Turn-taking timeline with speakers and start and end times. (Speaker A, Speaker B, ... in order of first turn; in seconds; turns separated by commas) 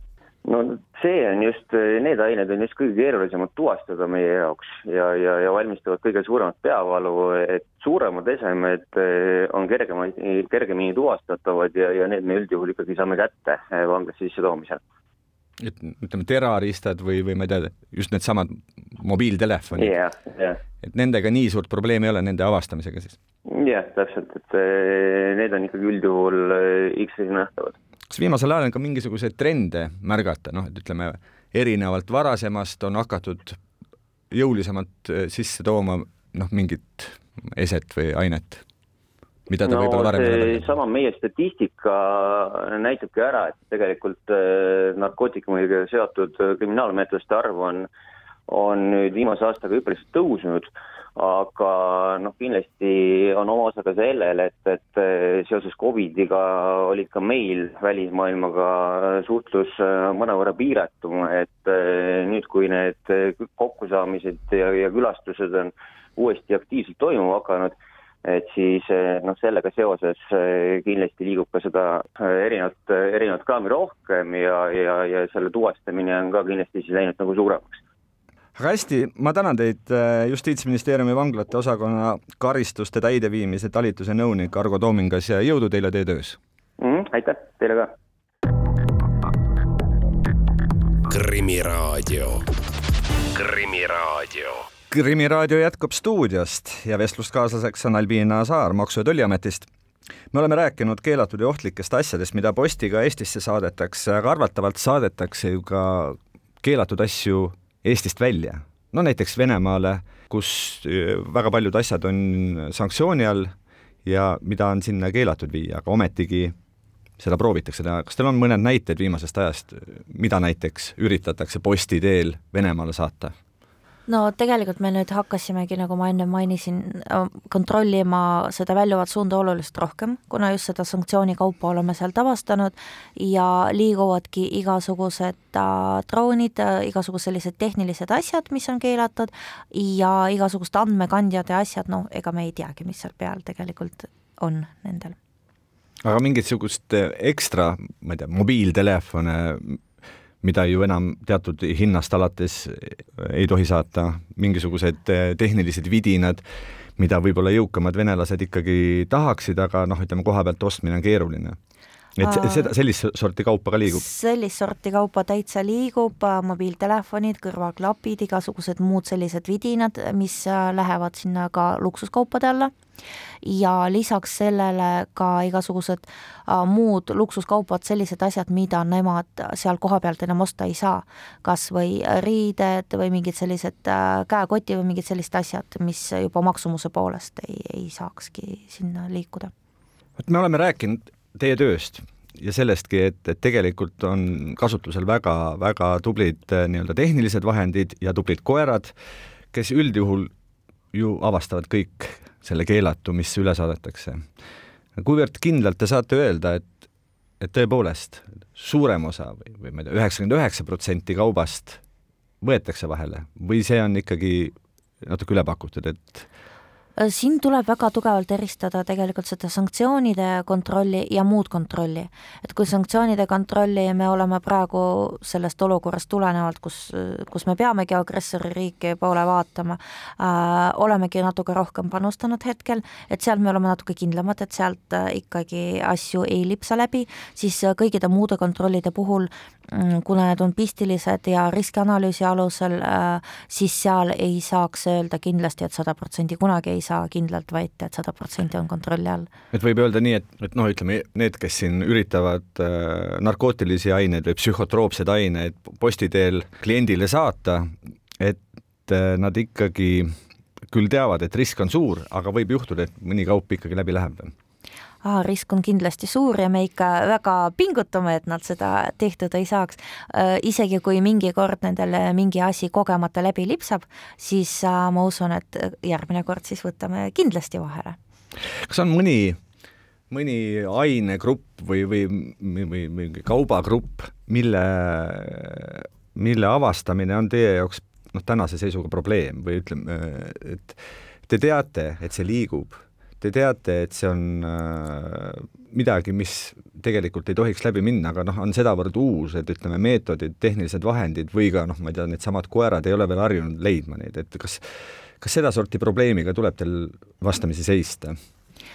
Speaker A: 0.4-14.8, Speaker B: 15.6-19.9, Speaker A: 19.8-20.6, Speaker B: 20.8-23.2, Speaker A: 23.5-27.8, Speaker B: 28.1-33.6, Speaker B: 34.3-38.6, Speaker B: 39.5-40.7, Speaker A: 39.6-47.9, Speaker A: 48.5-77.8, Speaker B: 78.5-86.4, Speaker A: 86.8-87.9, Speaker C: 91.1-92.5, Speaker C: 93.3-94.7, Speaker B: 94.9-99.7, Speaker B: 100.3-113.5, Speaker B: 114.0-116.5, Speaker B: 117.2-123.3, Speaker D: 124.1-145.2, Speaker B: 146.0-149.8, Speaker B: 150.4-156.4, Speaker B: 157.0-161.6, Speaker B: 162.2-164.0, Speaker D: 162.2-162.7, Speaker D: 163.8-172.7, Speaker D: 173.4-189.5, Speaker B: 190.2-198.9, Speaker B: 199.5-200.3, Speaker B: 200.9-204.2, Speaker B: 205.0-206.7, Speaker B: 207.4-211.8, Speaker B: 212.4-216.2, Speaker D: 217.0-249.3, Speaker B: 249.5-260.1, Speaker B: 260.7-264.3, Speaker D: 265.0-278.0, Speaker B: 278.6-279.4, Speaker B: 280.1-304.6, Speaker B: 305.2-308.1